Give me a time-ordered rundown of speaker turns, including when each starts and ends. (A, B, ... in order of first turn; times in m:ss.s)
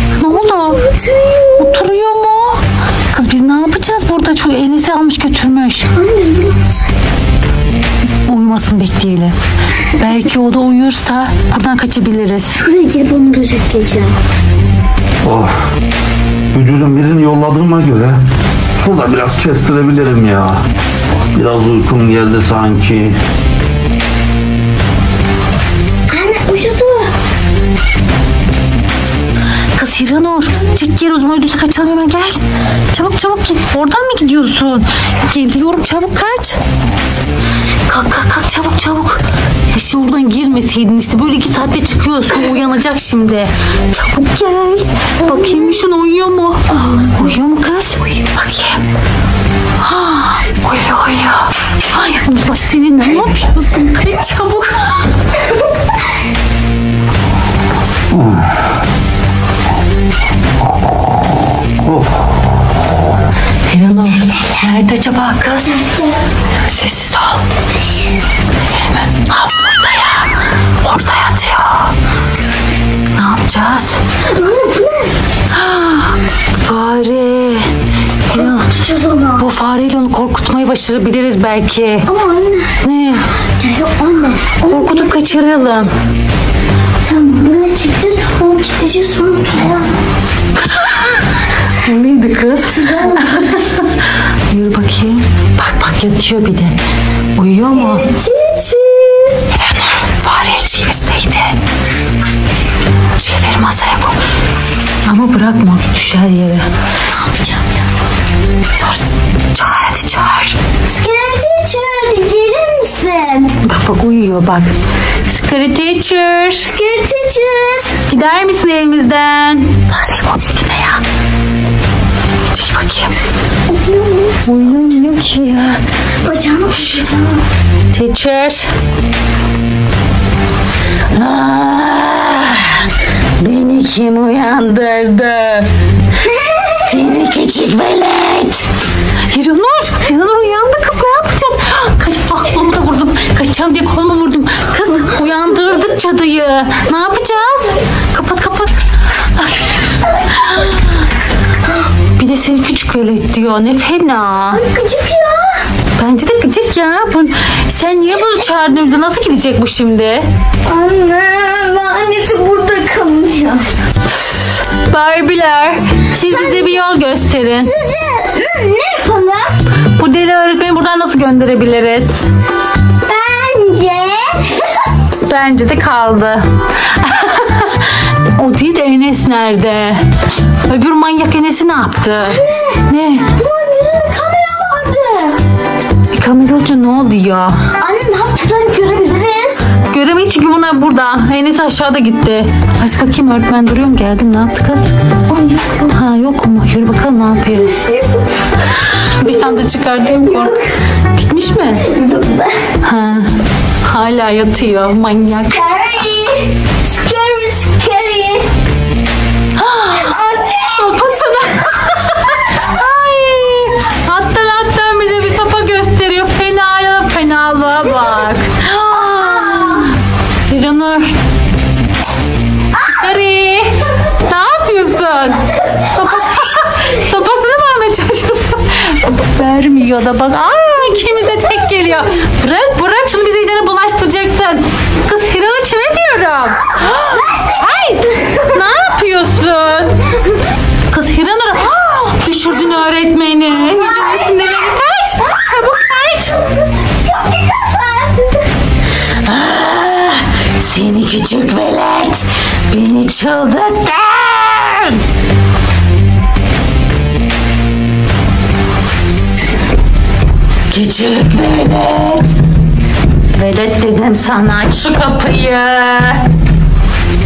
0:00.1-0:00.8 A
0:00.7-0:01.7 B
0:01.6-0:05.9 A
0:05.9-0:07.0 B
0:08.2-0:12.6 A
0:12.6-0:14.1 B
0:15.2-0:15.6 C
0:16.5-0:18.2 C
0:18.8-0:20.6 C
0:21.3-0:23.2 C
0:26.1-0:27.1 B
0:29.8-0:32.4 A
0:32.9-0:36.6 A
0:37.9-0:48.8 A
0:49.8-0:55.0 A
0:58.1-0:58.6 C
1:01.8-1:02.1 C
1:03.7-1:05.8 A
1:05.6-1:06.2 B
1:06.6-1:07.4 A
1:08.6-1:11.9 A
1:13.1-1:14.0 A
1:14.2-1:15.2 B
1:15.5-1:17.7 A
1:18.3-1:18.7 A
1:18.3-1:19.5 B
1:19.4-1:22.1 A
1:22.0-1:22.8 B
1:22.8-1:23.3 A
1:23.6-1:25.9 B
1:24.6-1:25.9 A
1:27.0-1:30.0 B
1:31.8-1:36.8 A
1:33.1-1:33.5 B
1:37.3-1:38.1 A
1:37.7-1:39.5 B
1:39.5-1:41.6 A
1:43.2-1:44.2 A
1:45.0-1:46.6 A
1:47.1-1:47.8 B
1:48.8-1:50.6 A
1:50.8-1:53.6 B
1:53.6-1:54.7 A
1:55.2-1:56.7 A
1:56.6-1:58.0 B
1:58.0-2:01.0 A
2:02.5-2:03.1 A
2:03.7-2:04.4 B
2:04.4-2:05.8 A
2:06.2-2:07.4 B
2:06.8-2:07.0 A
2:07.9-2:08.7 A
2:11.1-2:15.7 A
2:16.2-2:16.8 B
2:16.7-2:18.7 A
2:19.3-2:28.7 A
2:29.4-2:29.6 A
2:30.4-2:30.8 A
2:32.2-2:34.6 A
2:34.5-2:35.7 B
2:36.0-2:40.3 A
2:38.2-2:38.4 B
2:40.6-2:43.7 B
2:44.7-2:47.7 A
2:46.2-2:46.8 B
2:47.6-2:49.6 B
2:49.9-2:52.3 A
2:53.0-2:54.9 B
2:55.2-3:00.0 A
3:00.6-3:03.3 A
3:02.3-3:05.4 B
3:06.1-3:07.7 A
3:07.7-3:09.7 B
3:09.8-3:17.8 A
3:17.6-3:18.3 B
3:18.7-3:21.9 A
3:20.0-3:20.6 B
3:21.8-3:22.6 B
3:22.8-3:25.6 A
3:25.5-3:28.5 B
3:29.6-3:41.2 A
3:30.0-3:31.2 B
3:39.0-3:39.9 B
3:42.8-4:00.1 A
4:00.9-4:06.4 A
4:03.6-4:04.5 B
4:06.4-4:08.5 B
4:09.2-4:15.0 A
4:20.7-4:22.3 A
4:23.3-4:26.3 A